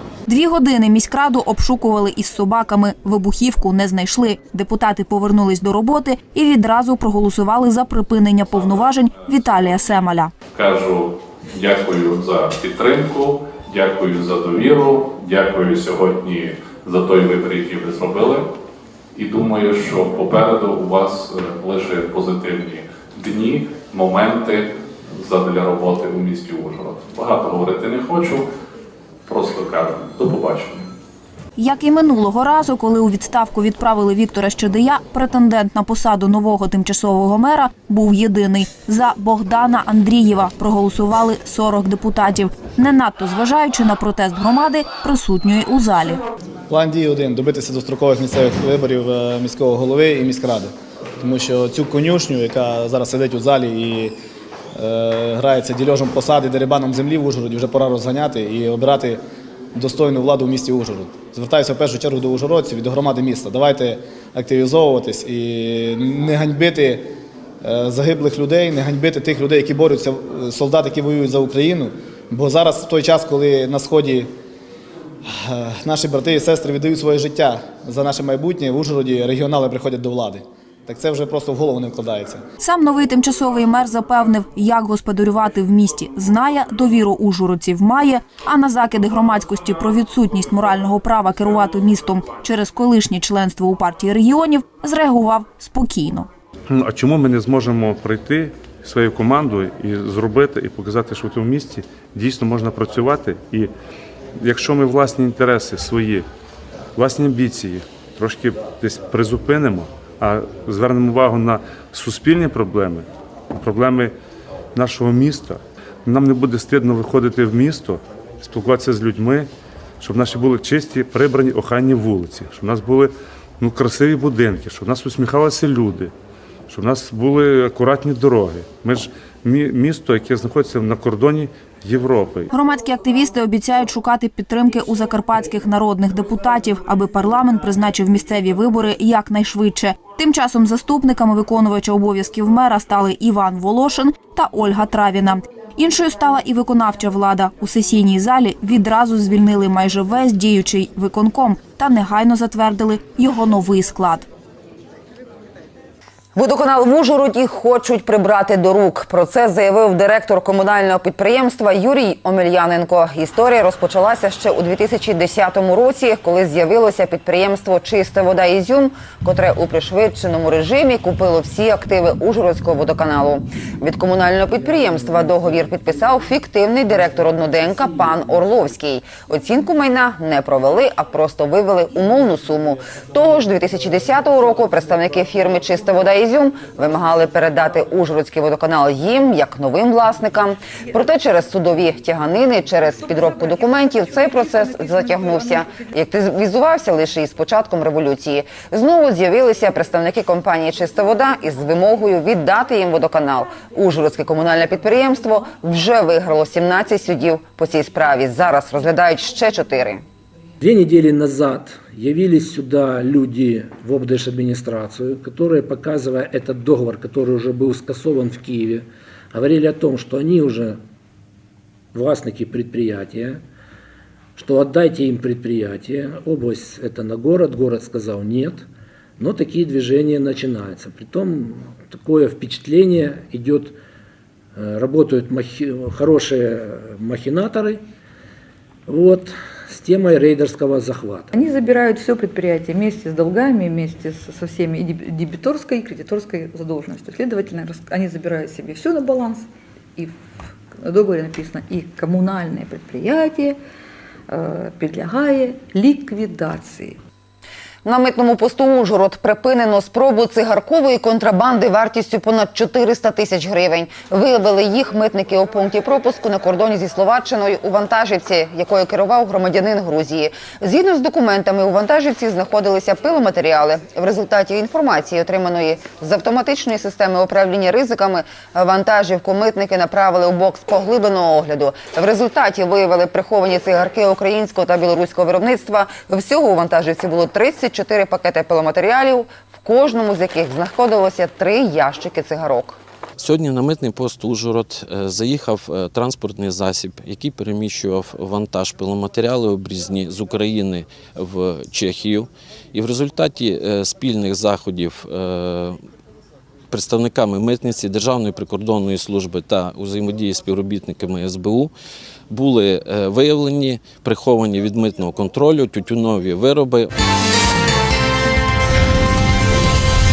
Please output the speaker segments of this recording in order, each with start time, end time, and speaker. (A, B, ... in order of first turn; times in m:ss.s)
0:00.3-0:10.3 A
0:10.5-0:18.5 B
0:19.1-0:28.4 B
0:29.3-0:30.8 B
0:31.6-0:46.2 A
0:46.7-0:54.2 C
0:54.7-0:59.2 C
0:59.7-1:07.1 C
1:07.6-1:14.3 C
1:15.2-1:22.4 C
1:22.6-1:36.3 A
1:36.7-1:43.7 D
1:44.4-1:46.3 D
1:47.0-1:54.1 D
1:54.7-1:59.5 D
2:00.0-2:06.1 D
2:06.7-2:12.5 D
2:12.5-2:34.3 A
2:36.4-3:30.0 E
3:30.6-3:40.8 F
3:41.9-3:43.4 F
3:44.4-3:48.6 F
3:49.2-3:53.7 F
3:54.6-3:57.8 F
3:58.9-4:01.3 F
4:01.3-4:09.4 G
4:10.8-4:13.6 G
4:14.3-4:17.0 G
4:17.8-4:52.8 E
4:53.2-5:05.8 H
5:06.7-5:11.7 H
5:12.3-5:16.9 H